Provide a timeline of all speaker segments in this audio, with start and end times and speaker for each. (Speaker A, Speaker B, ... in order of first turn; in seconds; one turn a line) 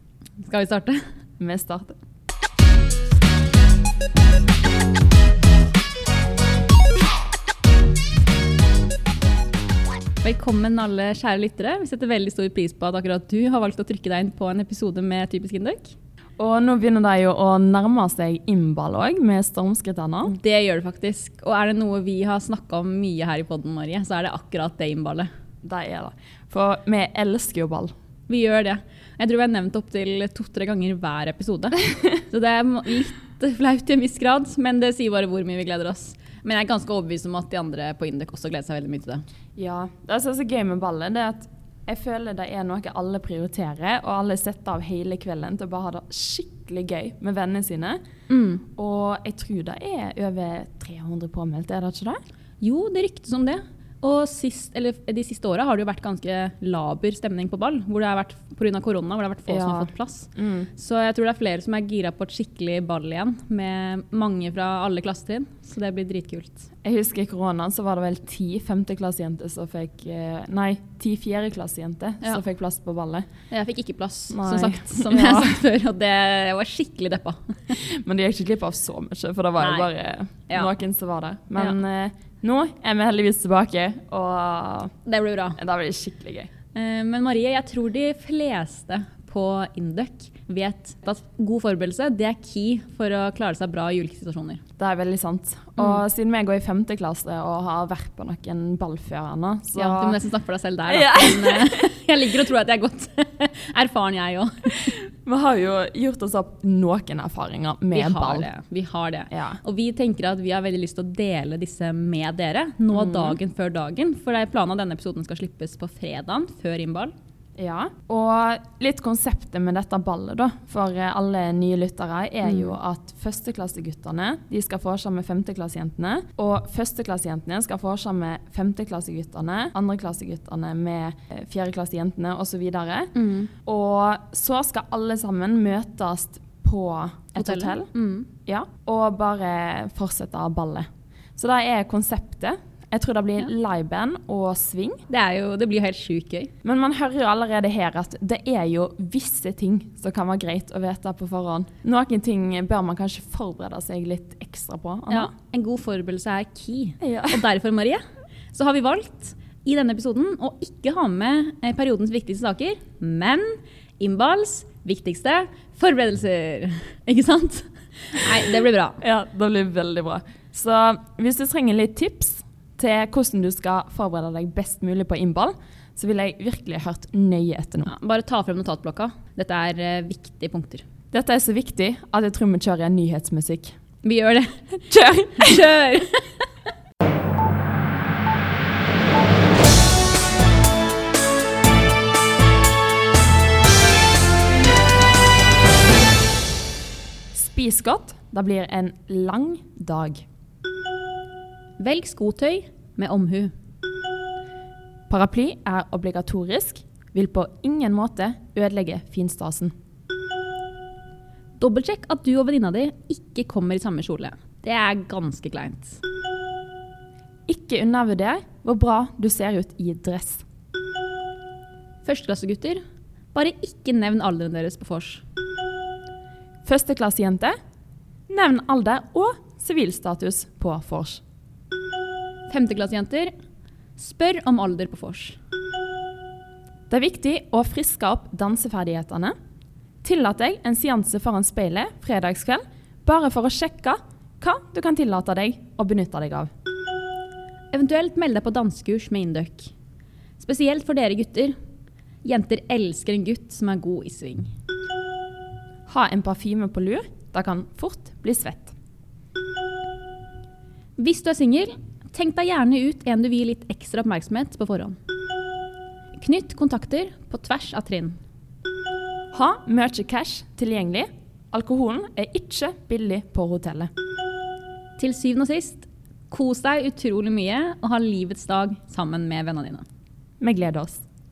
Speaker A: 0.4-1.1
Speaker B: 1.4-1.9
Speaker A: 10.2-15.9
Speaker B: 16.4-20.4
Speaker A: 20.3-25.3
Speaker B: 25.6-27.9
Speaker A: 28.3-39.2
Speaker B: 39.5-48.0
Speaker A: 48.3-48.6
Speaker B: 48.7-52.2
Speaker A: 52.6-66.6
Speaker B: 59.5-60.7
Speaker B: 66.8-73.3
Speaker A: 73.5-77.6
Speaker B: 74.3-75.6
Speaker B: 77.7-84.9
Speaker A: 79.6-79.9
Speaker A: 85.0-85.6
Speaker B: 85.6-86.5
Speaker A: 86.7-94.6
Speaker B: 94.8-100.2
Speaker A: 99.7-104.9
Speaker B: 100.9-102.0
Speaker B: 105.2-108.5
Speaker A: 107.9-117.1
Speaker B: 109.3-109.6
Speaker B: 112.9-113.4
Speaker B: 117.6-133.1
Speaker A: 122.4-122.7
Speaker A: 133.1-133.5
Speaker B: 133.6-137.9
Speaker A: 137.4-138.3
Speaker B: 138.4-145.0
Speaker A: 145.1-146.5
Speaker B: 146.6-155.3
Speaker A: 155.1-169.0
Speaker B: 157.0-157.4
Speaker B: 169.0-177.9
Speaker A: 177.8-180.8
Speaker B: 181.1-183.8
Speaker A: 184.0-186.3
Speaker B: 184.9-185.6
Speaker B: 197.3-200.2
Speaker A: 201.8-203.5
Speaker B: 205.1-209.7
Speaker A: 211.6-216.0
Speaker B: 217.5-220.4
Speaker A: 222.0-222.8
Speaker A: 223.3-225.2
Speaker B: 226.6-227.6
Speaker B: 228.3-231.2
Speaker A: 232.5-233.3
Speaker A: 234.0-235.4
Speaker B: 236.9-239.3
Speaker B: 240.0-246.5
Speaker A: 247.7-249.7
Speaker A: 250.4-251.6
Speaker A: 252.2-254.5
Speaker B: 255.9-258.7
Speaker A: 261.0-265.0
Speaker A: 266.1-268.2
Speaker B: 269.3-273.9
Speaker A: 275.0-279.8
Speaker B: 280.4-281.0